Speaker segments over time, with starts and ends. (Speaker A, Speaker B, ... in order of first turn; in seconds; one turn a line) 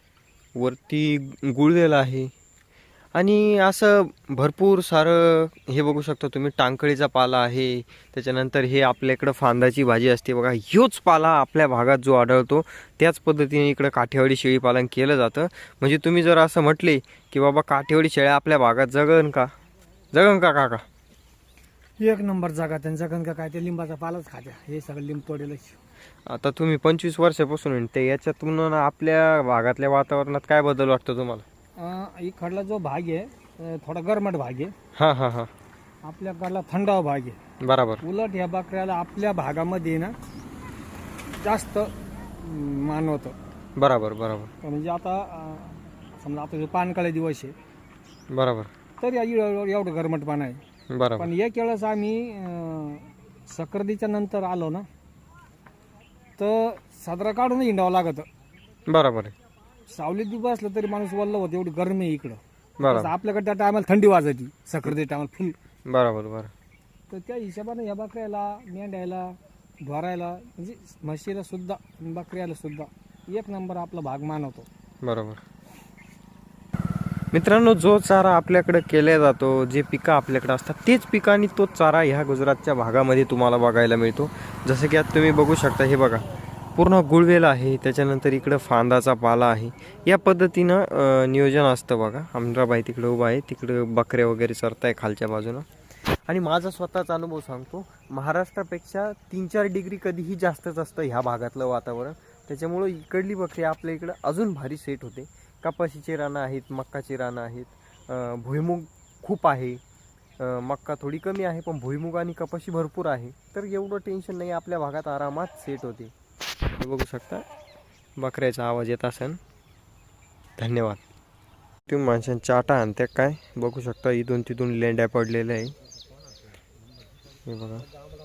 Speaker A: 0.6-2.3
Speaker A: 3.1-19.5
Speaker A: 20.1-20.8
Speaker B: 22.0-25.8
Speaker A: 26.2-31.4
Speaker B: 31.8-34.7
Speaker A: 35.0-35.5
Speaker B: 36.0-37.4
Speaker A: 37.6-38.0
Speaker B: 38.0-40.1
Speaker B: 41.3-43.3
Speaker A: 43.8-44.5
Speaker B: 44.6-47.5
Speaker A: 48.3-48.7
Speaker B: 49.0-50.6
Speaker A: 50.9-51.3
Speaker B: 51.2-54.9
Speaker B: 56.4-58.3
Speaker A: 58.9-59.3
Speaker B: 59.9-65.6
Speaker A: 62.8-63.1
Speaker A: 65.9-66.5
Speaker B: 67.1-74.7
Speaker A: 75.0-75.4
Speaker A: 77.3-86.2
Speaker A: 86.8-95.7
Speaker A: 96.3-109.8
Speaker A: 110.4-116.1
Speaker A: 116.8-117.5
Speaker A: 118.2-119.4
Speaker A: 120.6-121.0
Speaker A: 121.9-125.7
Speaker A: 127.5-127.9